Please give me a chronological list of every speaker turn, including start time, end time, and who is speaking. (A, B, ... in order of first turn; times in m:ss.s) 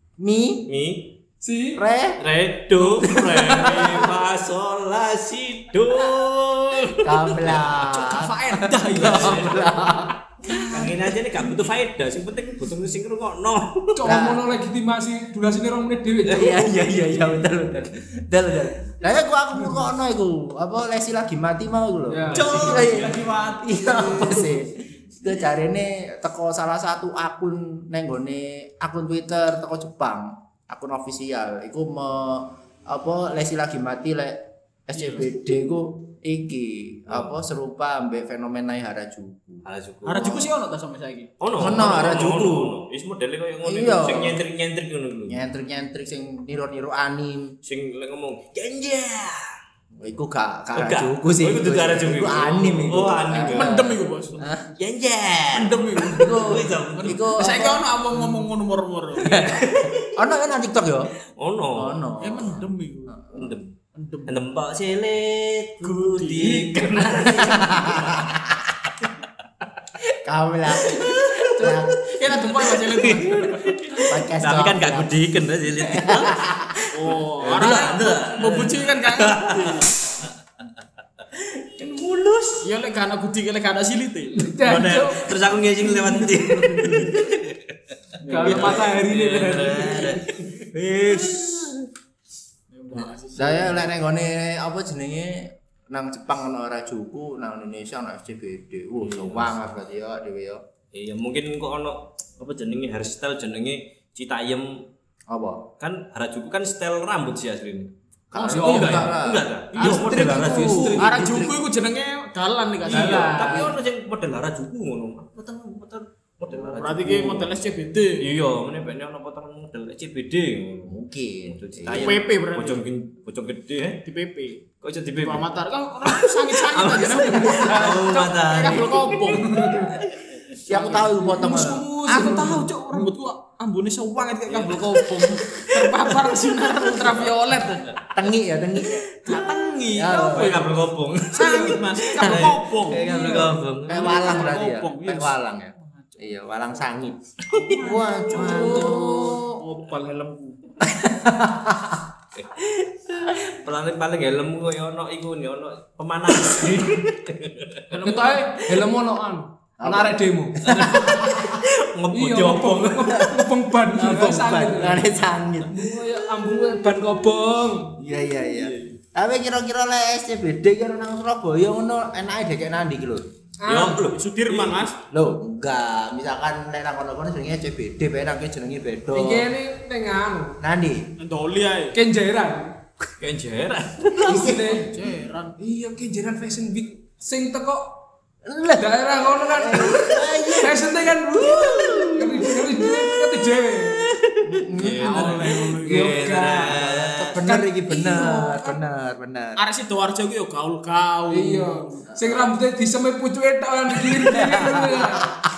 0:00.2-0:00.7 A
0:00.7-0:01.2 B
0:01.4-0:01.8 C
0:01.7-0:02.2 A
0:02.2-0:07.8 B
0:03.0-0:04.0 A
0:03.5-0:03.8 C
0:07.0-0:11.0 A
0:07.9-0:09.6 D
0:08.8-0:09.9 B
0:10.5-0:14.1 B
0:14.0-0:16.7 C
0:14.0-0:14.5 A
0:16.2-0:39.6 A
0:22.1-0:22.9 C
0:22.3-0:24.6 B
0:34.9-0:35.2 D
0:37.1-0:37.4 B
0:39.6-0:40.5 B
0:40.0-0:41.3 D
0:41.4-0:45.4 B
0:41.6-0:42.8 A
0:43.6-0:44.4 A
0:45.3-0:47.5 A
0:47.6-0:49.5 B
0:50.0-0:54.7 A
0:50.7-0:53.9 B
0:53.3-0:54.5 D
0:54.8-0:57.4 B
0:55.5-0:59.4 D
0:56.1-0:58.4 A
0:59.2-1:00.1 B
0:59.2-1:01.1 A
1:01.4-1:02.1 B
1:01.7-1:03.5 A
1:02.2-1:03.2 D
1:03.3-1:03.7 B
1:03.9-1:04.4 D
1:04.2-1:08.3 B
1:05.8-1:06.8 D
1:07.1-1:08.7 A
1:10.0-1:12.5 A
1:10.9-1:11.7 B
1:11.6-1:13.8 D
1:12.9-1:20.3 B
1:14.0-1:15.2 A
1:15.8-1:16.8 A
1:16.9-1:19.9 D
1:21.3-1:22.7 B
1:22.6-1:24.4 D
1:24.3-1:27.1 C
1:24.6-1:27.7 B
1:28.2-1:30.4 C
1:28.3-1:28.8 D
1:28.3-1:31.8 B
1:28.4-1:28.7 A
1:32.7-1:33.8 D
1:33.3-1:40.6 A
1:39.0-1:39.6 B
1:40.9-1:44.8 B
1:45.3-1:45.7 A
1:45.8-1:47.9 B
1:48.3-1:51.5 A
1:48.3-1:49.1 D
1:48.4-1:51.4 B
1:49.7-1:53.7 D
1:52.9-1:57.5 B
1:52.9-1:53.7 C
1:52.9-1:53.7 A
1:56.5-1:58.3 D
1:58.2-2:04.0 B
2:00.9-2:02.2 A
2:01.9-2:02.8 D
2:04.0-2:04.6 D
2:04.8-2:05.5 B
2:05.2-2:09.9 D
2:06.0-2:10.1 B
2:07.4-2:08.0 A
2:07.6-2:08.8 C
2:09.3-2:09.9 C
2:10.7-2:11.9 A
2:10.7-2:11.2 D
2:11.2-2:12.7 C
2:12.0-2:17.9 D
2:14.5-2:18.1 B
2:18.1-2:19.1 A
2:19.2-2:23.3 D
2:19.9-2:20.6 A
2:20.3-2:24.3 B
2:22.2-2:29.6 A
2:23.9-2:25.4 D
2:27.5-2:30.5 D
2:28.3-2:30.0 C
2:30.8-2:32.0 A
2:32.3-2:37.8 B
2:37.9-2:38.5 D
2:38.0-2:41.1 C
2:39.8-2:41.6 A
2:40.6-2:43.3 B
2:42.1-2:45.1 C
2:43.1-2:45.8 A
2:45.6-2:48.0 C
2:48.0-2:53.3 A
2:48.6-2:49.0 D
2:53.6-2:54.0 C
2:53.7-2:54.8 B
2:54.0-2:55.0 D
2:55.1-2:59.5 A
2:59.1-3:00.6 C
3:00.6-3:01.1 A
3:01.2-3:02.0 D
3:01.9-3:02.8 C
3:03.2-3:04.5 B
3:04.2-3:04.8 A
3:04.2-3:05.0 C
3:04.7-3:05.6 D
3:05.6-3:08.0 C
3:08.4-3:13.0 A
3:08.7-3:14.1 C
3:14.2-3:17.4 B
3:14.4-3:15.6 A
3:15.0-3:16.2 D
3:15.1-3:16.9 C
3:16.6-3:19.6 A
3:17.4-3:18.8 C
3:19.6-3:21.8 D
3:21.3-3:25.4 C
3:22.1-3:22.5 A
3:24.1-3:25.4 A